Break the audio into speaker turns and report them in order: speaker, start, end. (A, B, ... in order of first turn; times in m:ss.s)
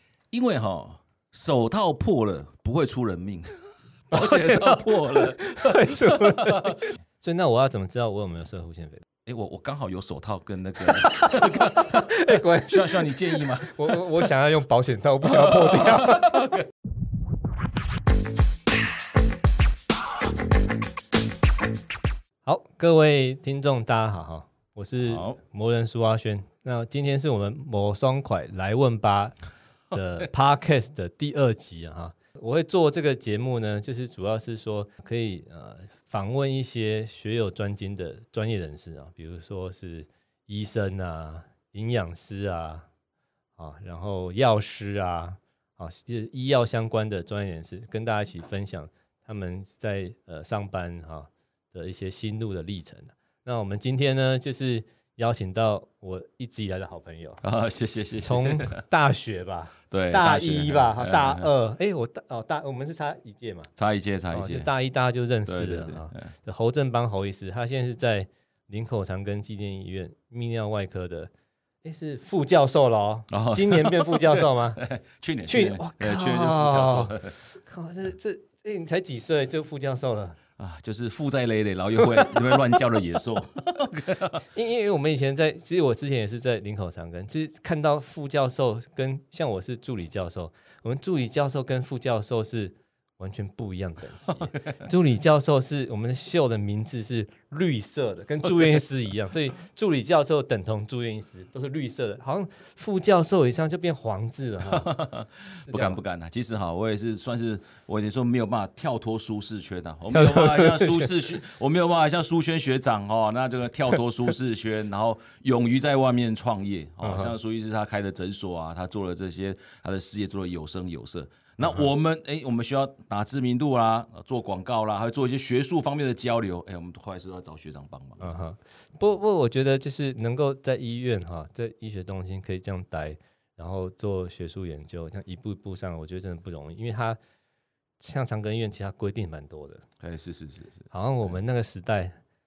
0:00.3-0:03.6 A
0:04.1-0:06.9 A
0:04.1-0:09.0 B
0:09.3-0:14.3 A
0:10.9-0:16.4 B
0:15.2-0:16.7 A
0:22.4-0:29.4 B
0:25.0-0:25.4 A
0:29.9-0:42.9 B
0:43.6-0:57.4 B
0:57.4-0:58.8 A
0:58.2-1:03.7 B
0:59.9-1:01.5 A
1:03.8-1:04.7 A
1:04.3-1:11.3 B
1:05.5-1:06.3 A
1:11.8-1:14.8 B
1:13.3-1:17.4 A
1:15.5-1:20.4 B
1:20.6-1:24.4 A
1:24.5-1:44.9 B
1:34.5-1:34.9 A
1:44.6-2:08.3 A
1:45.7-1:46.0 B
1:50.1-1:51.3 B
1:57.0-1:57.4 B
2:08.2-2:17.2 B
2:18.0-2:19.9 B
2:20.0-2:20.9 A
2:20.9-2:22.2 B